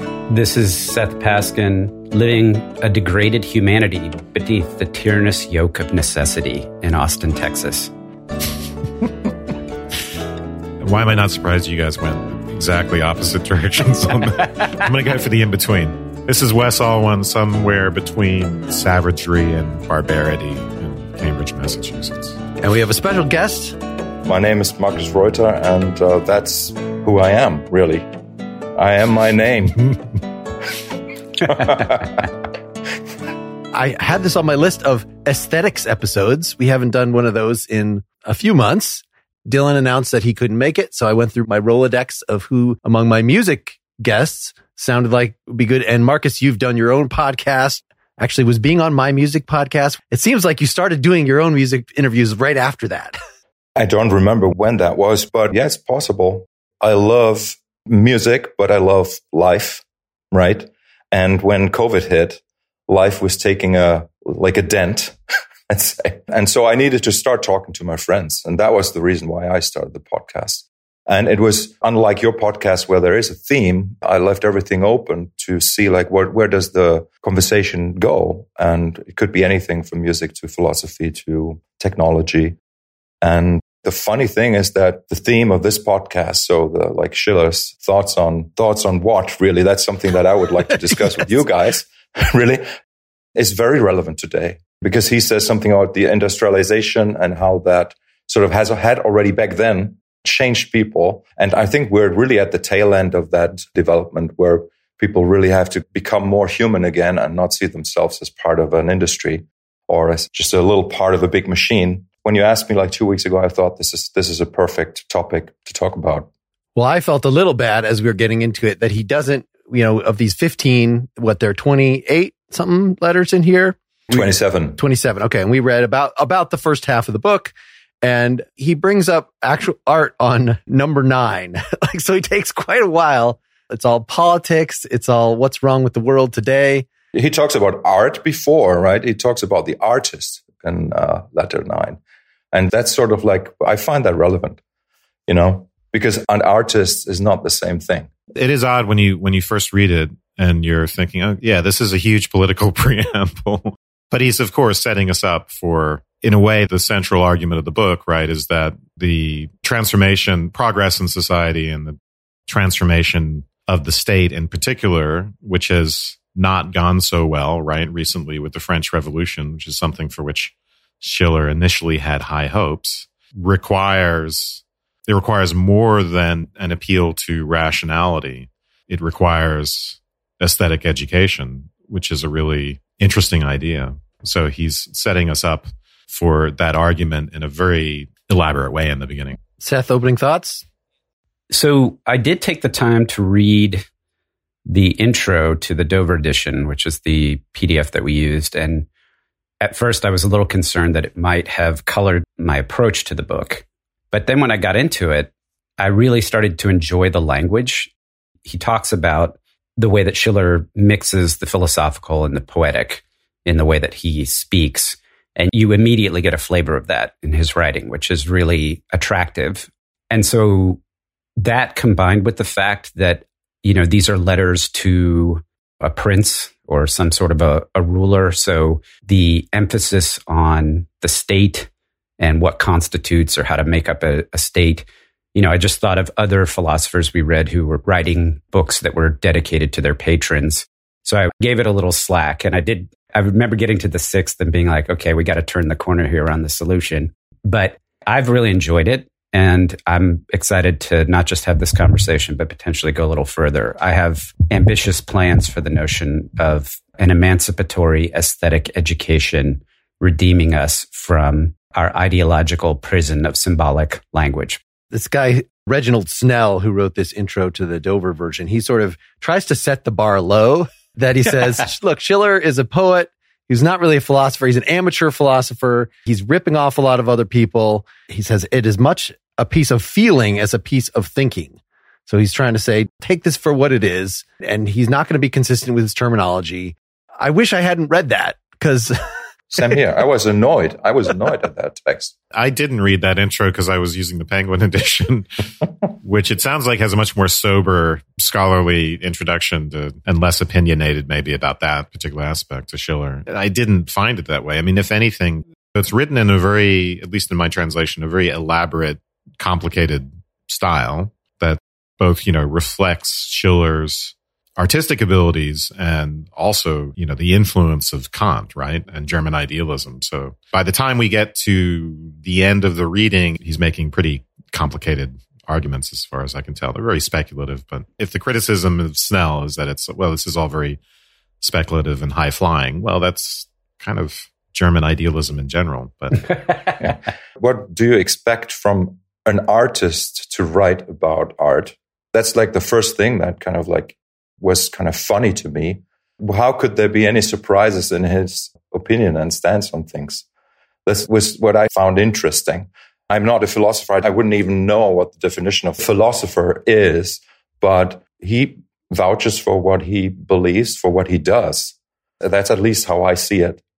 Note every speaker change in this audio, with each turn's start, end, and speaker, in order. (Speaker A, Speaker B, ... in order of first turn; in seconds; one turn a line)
Speaker A: 0.3-7.9
Speaker B: 10.8-22.4
Speaker C: 22.6-23.8
Speaker D: 24.2-28.1
Speaker D: 28.8-29.9
Speaker D: 31.4-32.3
Speaker C: 33.7-53.2
Speaker D: 53.8-65.2
Speaker D: 65.7-82.6
Speaker D: 83.2-92.7
Speaker D: 93.4-116.3
Speaker C: 116.8-136.9
Speaker D: 124.1-124.8
Speaker D: 137.1-142.0
Speaker D: 142.5-144.6
Speaker D: 145.3-148.1
Speaker B: 148.3-162.0
Speaker B: 162.5-189.4
Speaker C: 189.6-190.6
Speaker A: 191.5-193.9
Speaker A: 194.7-198.9
Speaker A: 199.6-207.9
Speaker A: 208.5-220.8
Speaker A: 221.4-264.6
Speaker C: 264.9-289.0
Speaker D: 289.5-292.1
Speaker B: 292.3-295.4
Speaker B: 296.0-330.8
Speaker B: 331.4-336.4
Speaker D: 336.8-350.2
Speaker D: 350.9-363.6